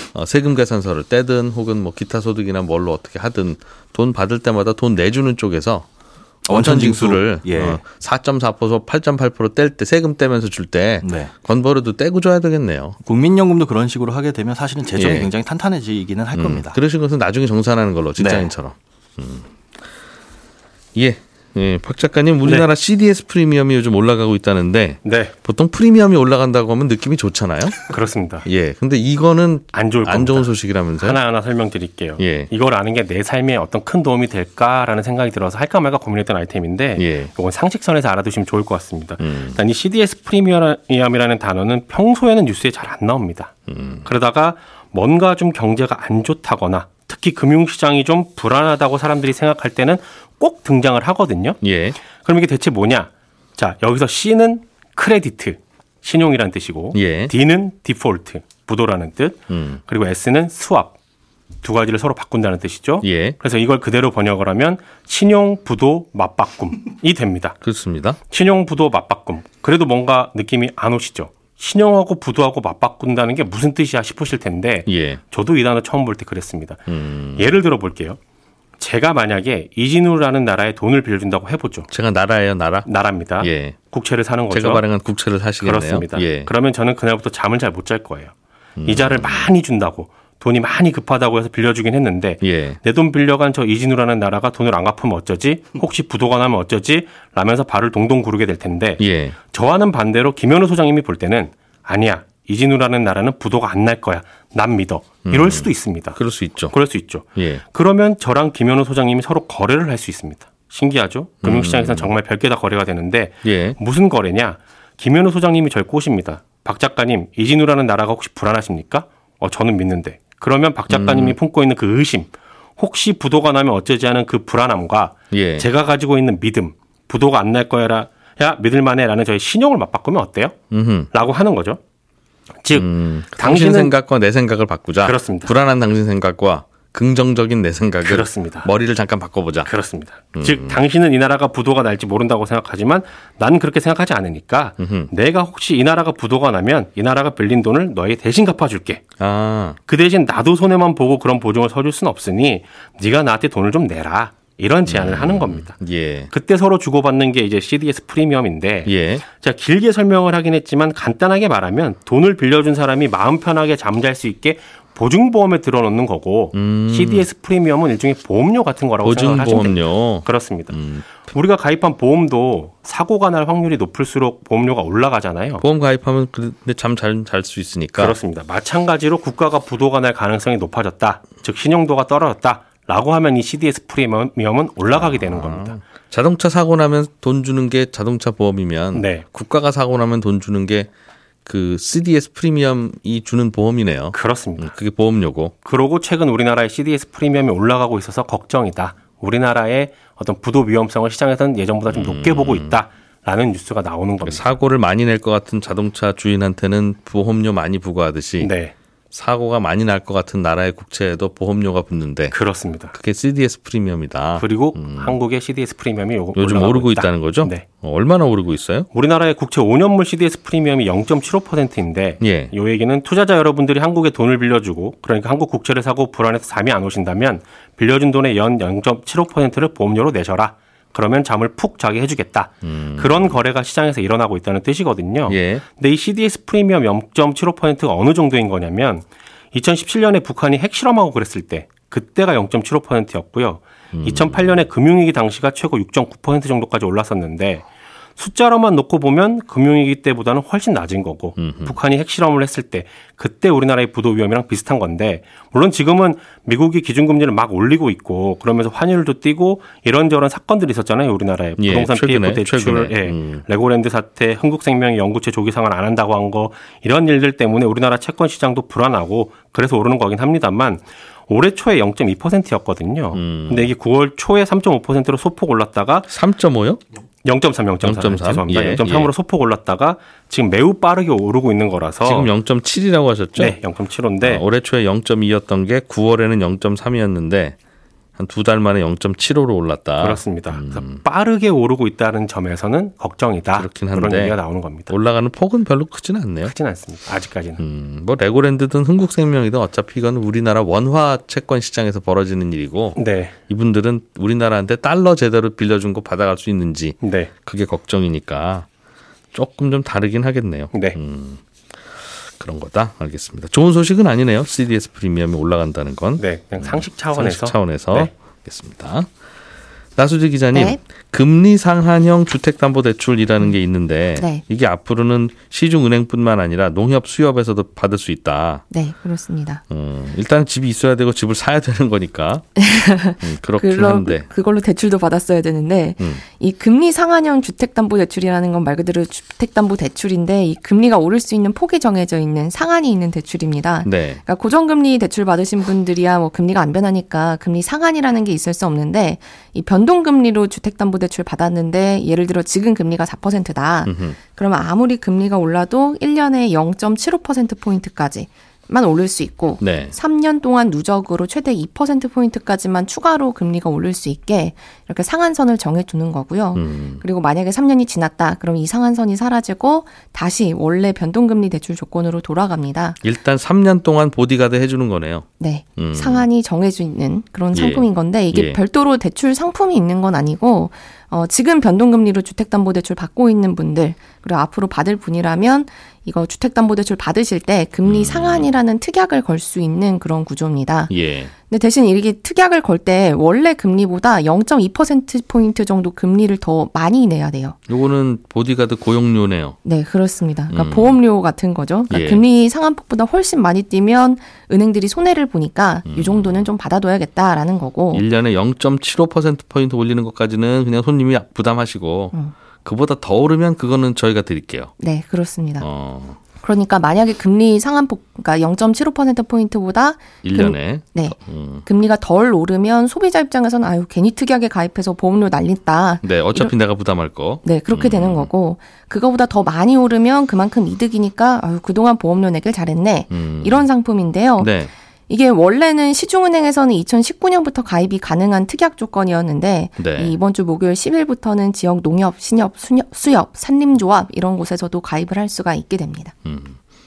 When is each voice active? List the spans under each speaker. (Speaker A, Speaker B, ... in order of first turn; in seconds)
Speaker A: 0.1-5.9, 6.5-13.0, 14.9-15.3, 16.3-19.5, 20.9-27.8, 28.4-31.2, 32.2-32.5, 37.0-37.3, 39.2-39.6, 43.7-44.1, 51.6-52.0, 56.9-57.3, 59.5-59.8, 63.0-63.4, 67.6-68.2, 74.9-75.2, 76.9-77.5, 81.9-82.9, 83.4-83.8, 84.5-86.5, 88.8-89.5, 92.4-92.8, 99.0-99.4, 105.2-106.8, 107.4-107.6, 111.4-112.1, 113.4-113.8, 120.9-121.4, 125.3-125.7, 130.7-131.1, 132.7-139.7, 140.3-140.8, 144.8-145.1, 149.2-149.8, 154.9-156.3, 158.9-159.2, 166.5-167.3, 169.0-171.1, 175.6-178.2, 184.9-190.9, 191.4-195.5, 201.9-202.8, 204.2-208.5, 209.1-212.4, 212.9-215.2, 216.4-218.9, 222.2-222.5, 232.6-233.4, 235.3-235.6, 243.9-244.6, 251.4-251.8, 261.6-263.4, 273.1-273.7, 276.1-276.8, 277.8-279.1, 282.0-283.6, 284.2-287.6, 288.2-291.0, 293.6-294.4, 294.9-296.5, 297.6-308.7, 309.3-311.4, 312.0-319.1, 320.0-328.6, 329.7-334.3, 343.8-344.2, 353.9-354.2, 359.6-359.9, 366.6-367.0, 373.0-376.2, 377.5-378.6, 387.9-388.5, 390.9-391.3, 397.7-399.6, 400.5-401.0, 401.9-402.2, 405.9-406.5, 407.9-414.7, 415.6-416.2, 420.2-421.6, 426.0-428.3, 433.1-433.7, 434.4-434.7, 439.8-440.2, 446.2-446.6
Speaker B: 6.5-7.8, 11.0-11.3, 13.1-16.8, 18.2-18.5
Speaker C: 25.1-25.3, 27.9-28.5, 29.7-51.6, 52.2-61.0, 61.6-67.6, 68.3-78.2, 78.8-81.9, 82.9-84.8, 85.6-88.3, 88.8-106.2, 106.7-130.6, 131.1-131.8, 132.6-133.9, 135.0-135.5, 138.0-138.7, 139.6-149.0, 149.9-175.6, 178.0-185.8, 188.9-189.2, 194.1-194.7, 195.6-204.5, 208.4-208.7, 212.3-212.9, 214.4-217.6, 218.9-247.7, 248.2-276.1, 277.2-282.3, 283.4-284.4, 290.0-294.9, 296.4-297.6, 303.0-303.4, 307.0-307.3, 316.2-318.1
Speaker D: 320.5-320.8, 324.2-324.4, 328.7-329.6, 332.6-373.0, 375.4-390.9, 391.5-397.6, 399.6-408.1, 414.8-415.7, 416.4-426.5, 427.4-434.5, 435.1-446.1